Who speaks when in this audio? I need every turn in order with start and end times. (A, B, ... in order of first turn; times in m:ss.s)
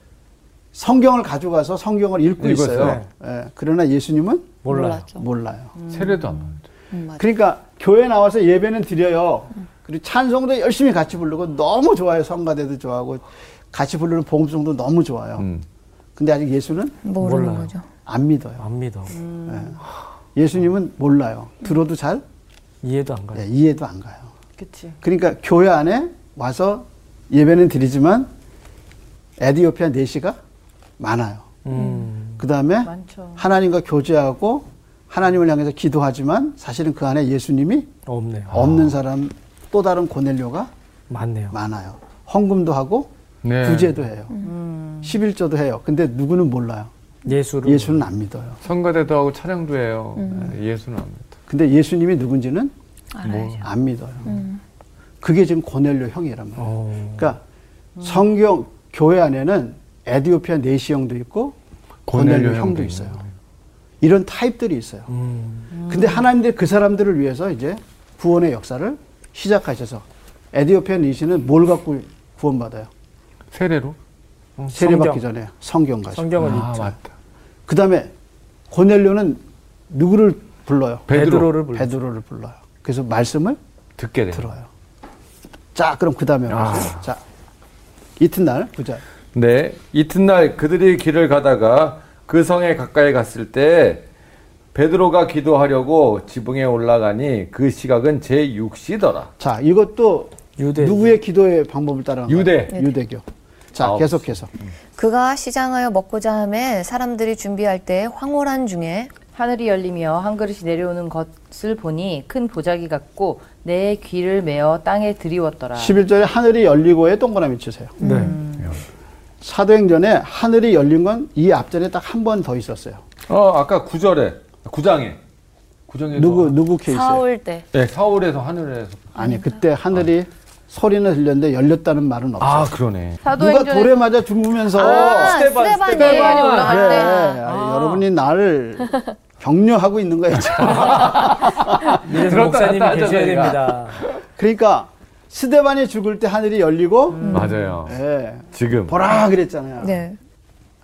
0:00.7-0:05.7 A
0:02.4-0:03.0 B
0:02.8-0:03.1 C
0:04.6-0:05.1 C
0:04.7-0:05.3 D
0:05.8-0:06.4 E
0:05.9-0:06.6 B
0:06.9-0:07.3 D
0:07.2-0:15.5 A
0:15.4-0:15.6 B
0:16.2-0:17.0 A
0:17.0-0:17.9 D
0:17.2-0:17.7 C
0:18.1-0:18.6 A
0:18.6-0:19.2 C
0:19.1-0:19.8 E
0:19.5-0:19.8 A
0:20.4-0:22.2 A
0:22.8-0:23.5 C
0:23.3-0:24.3 A
0:24.6-0:25.0 E
0:25.0-0:28.3 A
0:29.4-0:30.4 A
0:31.0-0:31.5 A
0:31.6-0:32.4 C
0:32.4-0:37.9 A
0:32.8-0:33.4 E
0:38.1-0:38.5 C
0:38.5-0:39.0 B
0:38.5-0:40.7 A
0:41.1-0:41.6 C
0:41.5-0:44.4 A
0:43.4-0:44.0 B
0:44.4-0:45.2 E
0:45.0-0:46.9 A
0:47.3-0:48.0 C
0:47.6-0:48.6 A
0:48.6-0:51.4 B
0:50.2-0:50.5 D
0:51.5-0:52.7 A
0:53.2-0:53.7 D
0:53.2-0:53.6 B
0:53.6-0:54.4 A
0:54.3-0:54.6 D
0:55.2-0:57.4 A
0:56.6-0:57.3 C
0:58.0-1:01.6 A
1:02.1-1:03.3 B
1:02.1-1:03.2 A
1:04.0-1:05.1 A
1:05.1-1:05.7 C
1:05.7-1:06.2 E
1:05.9-1:12.9 A
1:13.5-1:14.0 B
1:14.6-1:15.2 C
1:14.7-1:17.0 A
1:16.1-1:16.8 C
1:16.4-1:17.1 B
1:17.7-1:18.1 A
1:18.7-1:21.1 A
1:21.1-1:21.5 B
1:21.1-1:22.0 C
1:21.7-1:23.6 A
1:24.0-1:24.5 B
1:24.3-1:24.7 A
1:25.8-1:27.2 A
1:26.5-1:27.0 B
1:28.2-1:29.0 A
1:29.3-1:34.0 B
1:34.7-1:39.3 B
1:39.4-1:44.5 A
1:40.6-1:41.2 C
1:42.3-1:42.8 B
1:43.8-1:44.3 B
1:45.0-1:49.1 D
1:49.3-1:55.9 E
1:55.8-1:58.0 A
1:58.0-1:58.4 D
1:58.0-1:58.4 C
1:58.1-1:58.7 E
1:59.4-2:03.0 A
2:03.3-2:05.2 B
2:05.9-2:06.6 B
2:06.2-2:07.2 A
2:06.9-2:07.7 D
2:07.7-2:09.1 B
2:09.2-2:12.8 A
2:09.2-2:09.5 D
2:12.4-2:13.2 B
2:13.2-2:14.0 E
2:13.3-2:15.4 A
2:14.6-2:17.4 D
2:14.8-2:17.0 B
2:15.0-2:15.3 E
2:15.8-2:17.4 E
2:16.6-2:21.9 A
2:17.5-2:18.0 C
2:20.4-2:24.1 B
2:21.8-2:24.0 C
2:24.4-2:30.0 A
2:27.2-2:27.5 E
2:27.2-2:27.6 D
2:27.3-2:28.0 B
2:28.5-2:29.0 B
2:29.8-2:30.2 D